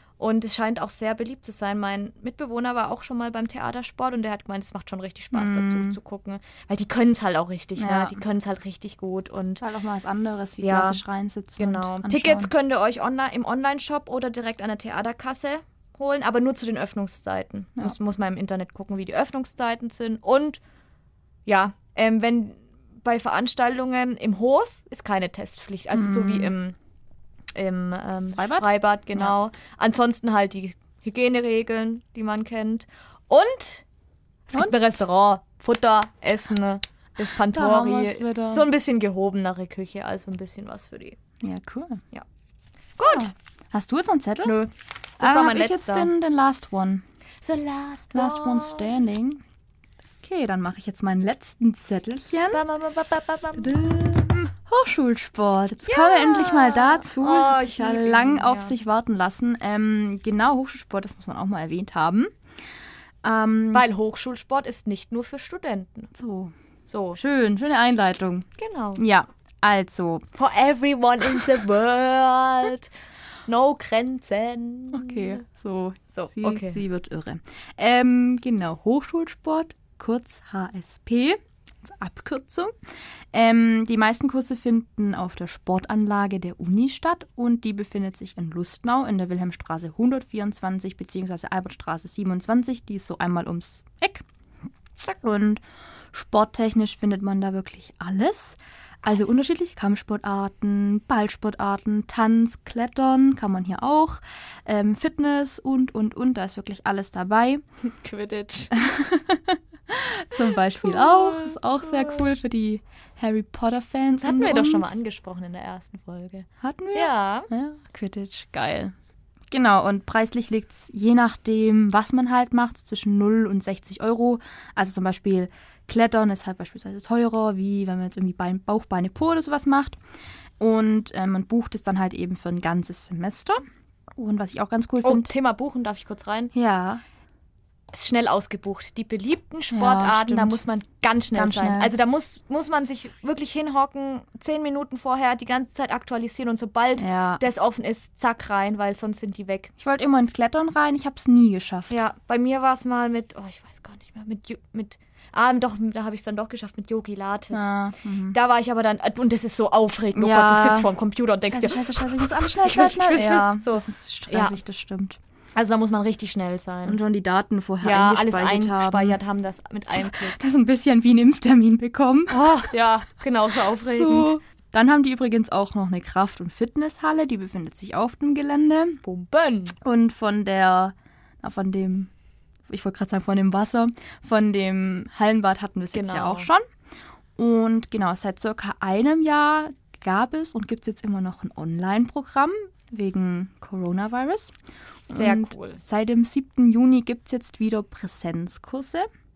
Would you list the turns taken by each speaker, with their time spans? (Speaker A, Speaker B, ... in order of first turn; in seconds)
Speaker A: 0.2-9.6, 10.6-11.0, 11.6-20.6, 21.5-26.8, 27.6-33.8, 34.5-41.2, 43.0-43.3, 44.4-46.1, 47.4-49.0, 52.5-54.2, 55.9-58.7, 63.7-66.1, 66.9-67.2, 68.6-69.0, 70.4-72.9, 73.5-75.4, 76.1-76.8, 107.8-108.8, 110.8-112.2, 114.2-117.5, 135.0-136.5, 137.9-149.7, 151.9-157.7, 158.3-164.6, 165.6-167.0, 167.8-170.4, 172.3-174.3, 179.0-179.8, 185.9-186.5, 195.1-195.8
Speaker B: 5.3-6.0, 7.8-8.2, 9.6-12.5, 25.9-26.5, 28.3-29.3, 34.5-35.0, 37.5-38.7, 41.4-42.0, 43.0-44.6, 45.2-47.0, 48.1-49.4, 50.2-52.6, 53.6-62.3, 63.2-63.9, 66.1-66.5, 67.2-70.3, 74.9-82.7, 83.3-94.2, 95.0-107.6, 108.7-115.0, 116.6-118.9, 119.5-130.0, 130.6-133.6, 134.2-135.3, 136.5-137.0, 139.7-140.7, 141.3-141.9, 147.0-147.4, 149.8-152.0, 157.5-158.4, 160.2-160.9, 161.5-165.2, 166.8-169.2, 170.0-172.7, 173.8-179.0, 179.8-182.1, 182.7-186.7, 187.4-194.6, 195.1-199.1